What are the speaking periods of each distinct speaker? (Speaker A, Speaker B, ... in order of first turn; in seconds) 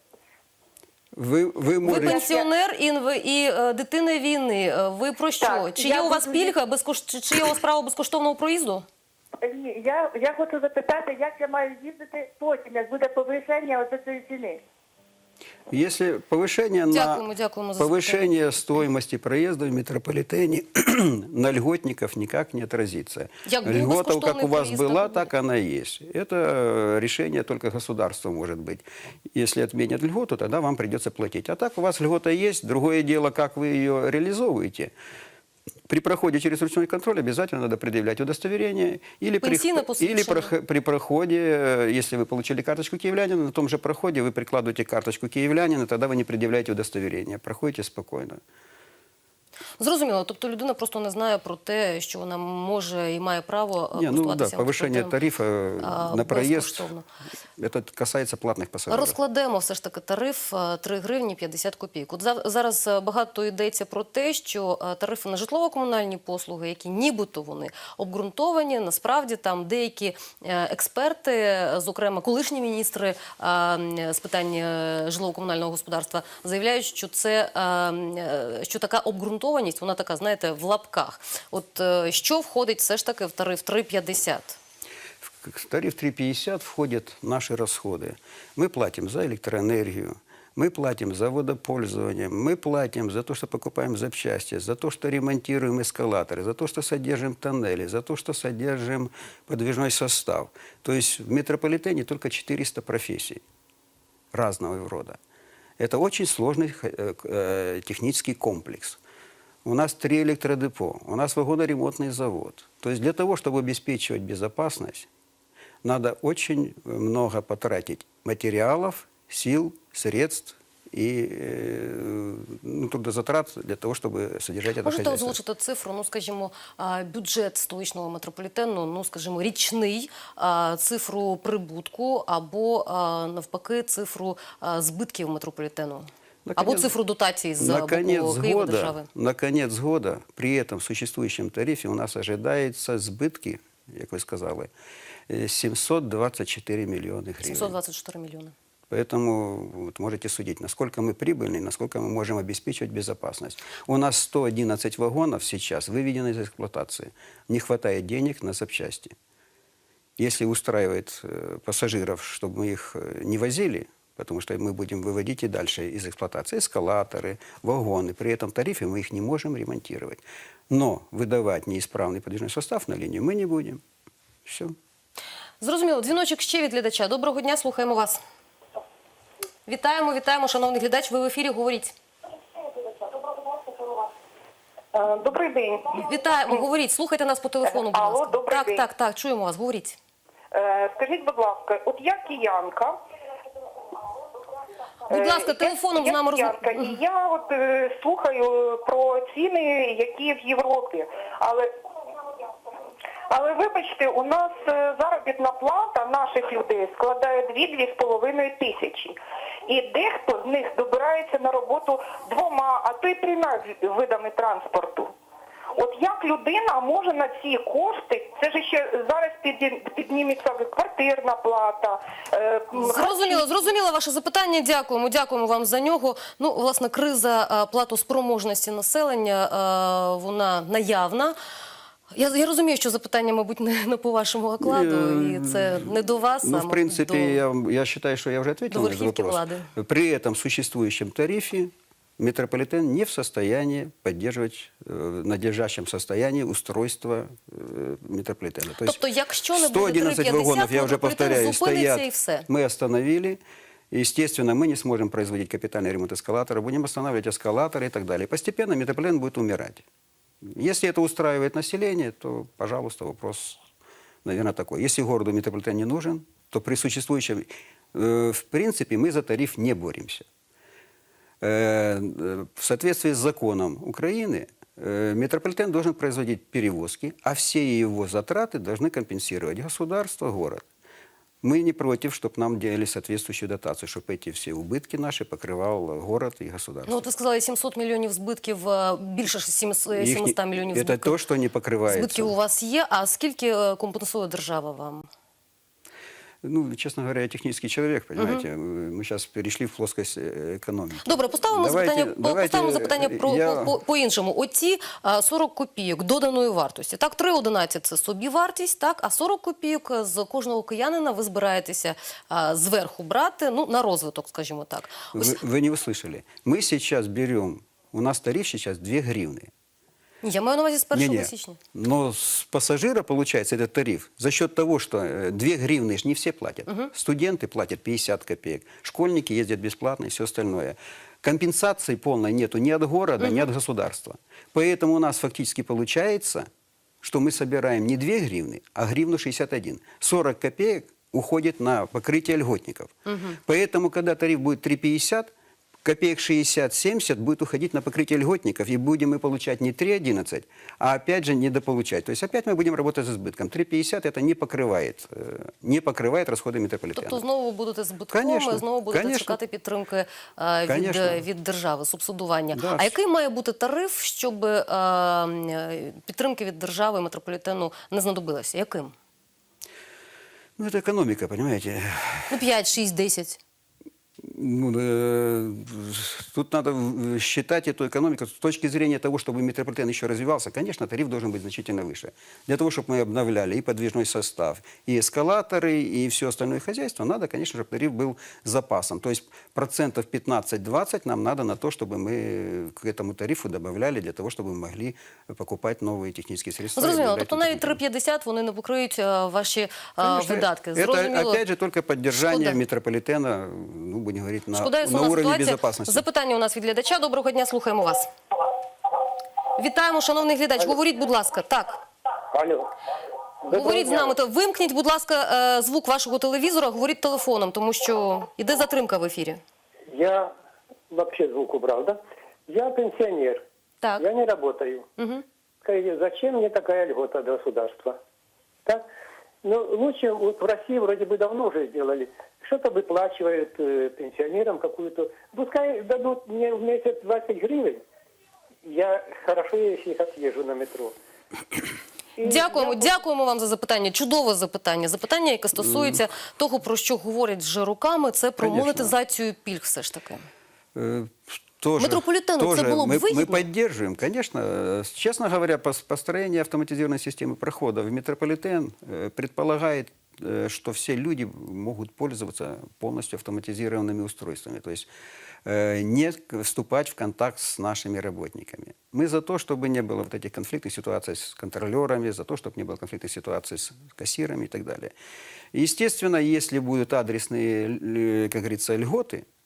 Speaker A: 1.1-2.3, 15.7-17.2, 17.8-34.9, 35.9-48.4, 53.9-56.9, 57.6-59.2, 85.2-103.4, 104.3-105.2, 105.8-109.0, 109.6-115.1, 115.8-125.4, 136.4-136.9, 137.6-144.7, 145.3-147.8, 148.9-159.2, 160.2-173.8, 174.4-174.8, 234.6-235.9, 236.4-249.0, 249.5-259.8, 260.4-263.6, 264.2-270.3, 271.4-280.6, 281.4-287.1, 289.9-292.3, 296.4-303.8, 315.1-319.5, 320.9-336.5, 337.0-345.3, 345.8-357.2, 358.1-359.4, 360.7-361.2, 362.5-362.9, 370.6-372.3, 374.2-397.8, 400.0-406.0, 445.5-446.0, 448.4-448.9, 450.7-464.9, 465.4-474.9, 475.5-479.2
Speaker B: 1.8-8.8, 16.9-18.3, 23.4-25.3, 39.4-40.5, 49.8-55.1, 55.8-57.0, 58.9-84.6, 124.8-139.1, 147.4-148.5, 175.6-178.2, 179.7-181.9, 185.9-190.0, 195.1-196.9, 222.7-231.4, 232.1-237.4, 238.7-239.7, 248.8-252.5, 286.9-291.1, 291.9-295.1, 298.2-298.4, 301.0-315.4, 320.2-321.6, 333.2-333.4, 343.1-343.4, 356.9-368.9, 372.3-373.4, 396.8-401.4, 402.2-402.6, 404.5-408.1, 409.6-411.8, 413.5-419.4, 423.8-424.1, 425.0-425.2, 442.2-450.2, 451.8-453.4
Speaker C: 1.9-2.3, 9.4-14.6
Speaker D: 5.5-6.5, 182.9-184.0, 184.9-186.5, 187.6-188.9, 190.5-193.0, 195.1-201.7, 203.3-215.1, 215.7-223.5
Speaker E: 412.3-412.7, 413.4-414.1, 419.9-420.3, 420.9-423.4, 424.0-424.9, 425.6-428.0, 429.4-437.8, 438.6-440.9, 442.2-442.9